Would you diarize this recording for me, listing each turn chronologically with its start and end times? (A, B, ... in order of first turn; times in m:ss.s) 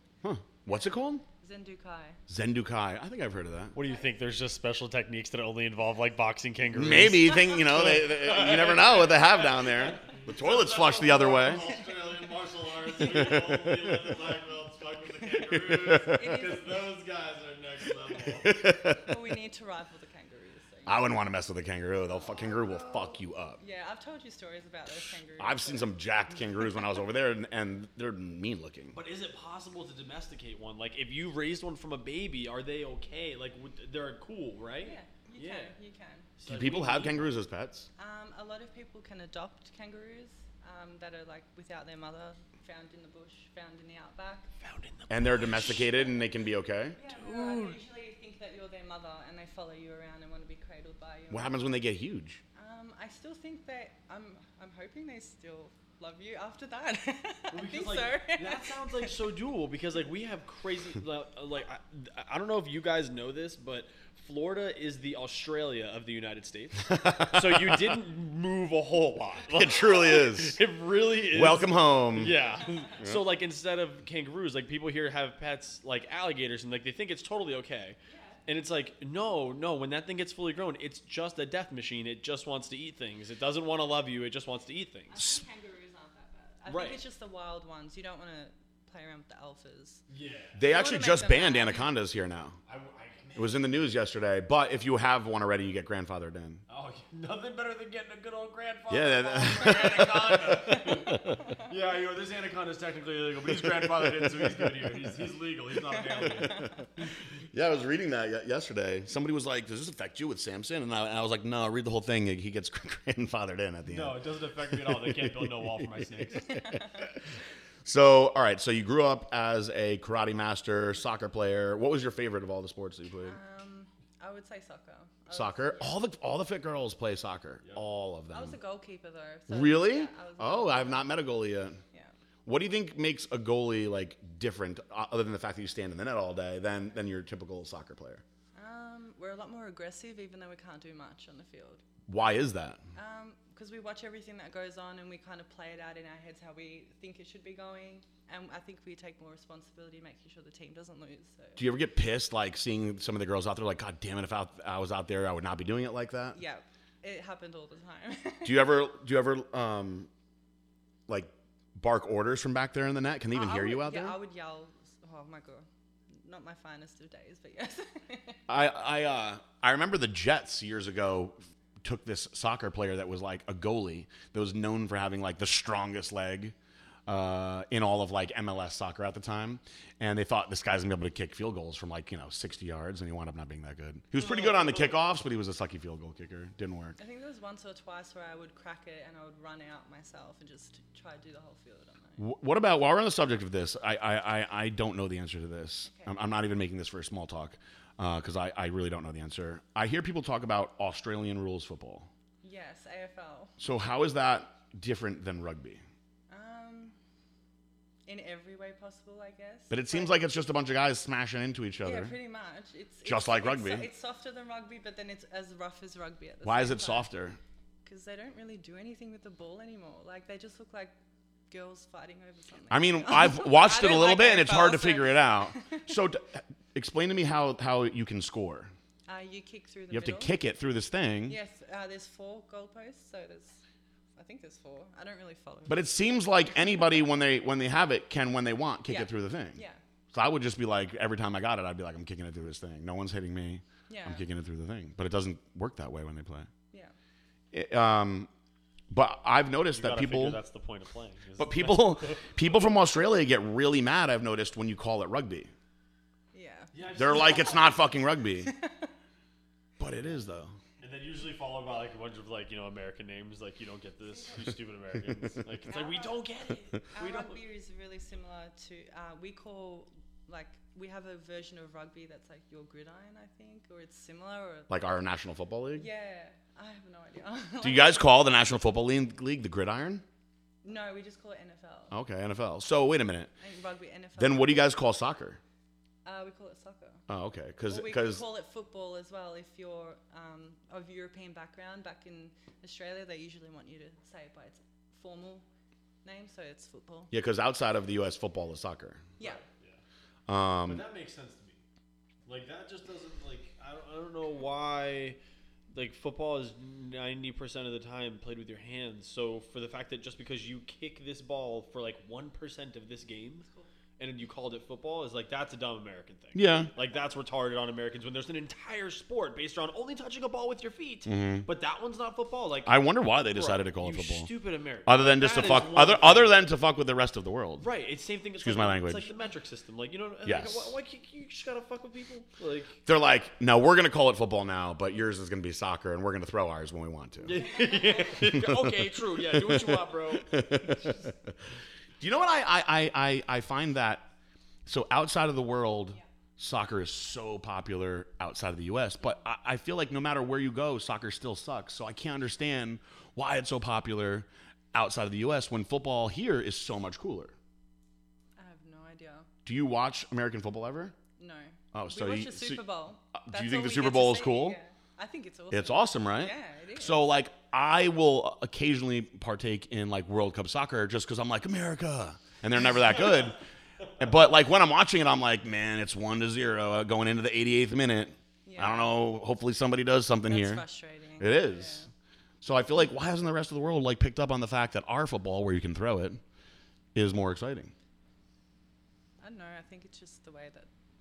0:00.2-0:01.2 A
0:01.4-0:02.2 B
0:02.3-0:03.8 A
0:03.7-0:18.6 C
0:06.7-0:11.6 A
0:13.0-0:13.6 A
0:15.5-0:16.4 A
0:16.0-0:16.8 B
0:18.4-0:19.2 A
0:18.9-0:21.1 B
0:20.8-0:23.6 A
0:22.0-0:26.0 B
0:25.4-0:29.0 A
0:28.9-0:35.7 C
0:34.8-0:36.3 B
0:36.4-0:37.3 C
0:36.4-0:37.9 A
0:38.0-0:44.5 B
0:44.6-0:45.9 C
0:45.1-0:47.0 A
0:46.9-0:51.8 B
0:47.1-0:47.8 C
0:51.3-0:52.4 A
0:52.5-0:59.1 B
0:57.5-1:25.2 C
1:06.9-1:08.0 A
1:09.5-1:10.6 A
1:11.3-1:12.4 A
1:18.1-1:18.4 B
1:25.1-1:30.0 B
1:26.6-1:27.0 C
1:30.1-1:30.6 C
1:30.5-1:32.6 A
1:30.6-1:31.9 B
1:32.6-1:33.7 C
1:33.4-1:36.6 A
1:36.7-1:47.1 C
1:38.9-1:41.4 A
1:46.0-1:46.8 B
1:47.5-1:54.2 A
1:53.9-1:56.6 C
1:54.7-1:55.8 A
1:56.5-1:56.8 A
1:57.8-2:03.4 A
2:03.2-2:06.0 B
2:05.3-2:08.6 A
2:08.3-2:11.1 B
2:09.5-2:11.8 A
2:12.4-2:18.2 A
2:18.5-2:21.8 B
2:22.1-2:22.8 A
2:22.9-2:31.6 B
2:31.6-2:36.4 A
2:36.3-2:38.6 B
2:38.4-2:40.1 A
2:41.1-2:44.2 A
2:43.3-2:48.4 B
2:48.5-2:56.5 A
2:57.1-3:07.0 A
3:07.0-3:12.2 B
3:12.2-3:22.1 A
3:15.8-3:16.1 B
3:22.4-3:23.5 B
3:23.6-3:25.8 A
3:26.3-3:26.9 B
3:28.1-3:30.2 B
3:29.7-3:32.1 A
3:31.8-3:37.1 B
3:33.0-3:33.9 A
3:36.4-3:37.4 A
3:37.8-3:40.9 B
3:41.5-3:45.9 B
3:42.7-3:48.7 A
3:49.1-3:50.3 B
3:49.9-3:51.4 A
3:51.3-3:53.6 B
3:54.2-3:56.2 B
3:55.7-4:06.5 A
3:58.9-3:59.8 B
4:03.9-4:04.2 B
4:07.5-4:08.3 A
4:08.9-4:10.4 A
4:09.7-4:12.3 C
4:11.4-4:15.5 A
4:16.3-4:17.8 B
4:16.7-4:17.8 C
4:16.9-4:18.5 A
4:18.4-4:18.9 B
4:19.8-4:20.6 A
4:20.8-4:27.4 C
4:25.7-4:26.2 B
4:26.9-4:34.7 B
4:34.7-4:35.9 A
4:35.7-4:38.1 B
4:37.6-4:40.0 A
4:40.6-4:41.9 B
4:41.9-4:43.3 A
4:43.4-4:44.6 B
4:44.2-4:45.4 A
4:46.0-4:47.0 B
4:47.1-4:48.2 A
4:47.7-4:55.4 B
4:56.0-4:57.1 B
4:57.1-4:59.1 A
4:59.2-4:59.8 C
5:00.3-5:00.8 A
5:00.6-5:01.6 C
5:02.2-5:05.2 C
5:05.7-5:13.5 C
5:14.0-5:26.4 C
5:16.3-5:16.7 A
5:21.0-5:21.5 A
5:22.6-5:24.3 A
5:24.8-5:27.7 A
5:27.6-5:32.8 C
5:28.4-5:29.1 A
5:30.2-5:30.7 A
5:32.8-5:37.4 A
5:37.2-5:40.7 C
5:37.4-5:38.1 B
5:38.2-5:41.4 A
5:42.0-5:44.1 A
5:44.6-5:57.3 A
5:58.4-5:59.3 B
5:59.4-6:00.9 A
6:01.2-6:07.0 B
6:01.7-6:02.6 A
6:03.1-6:04.6 A
6:05.5-6:13.4 A
6:14.0-6:20.6 A
6:18.4-6:18.9 B
6:20.2-6:21.9 B
6:21.2-6:21.8 A
6:22.4-6:26.2 A
6:26.9-6:27.7 A
6:29.2-6:30.7 B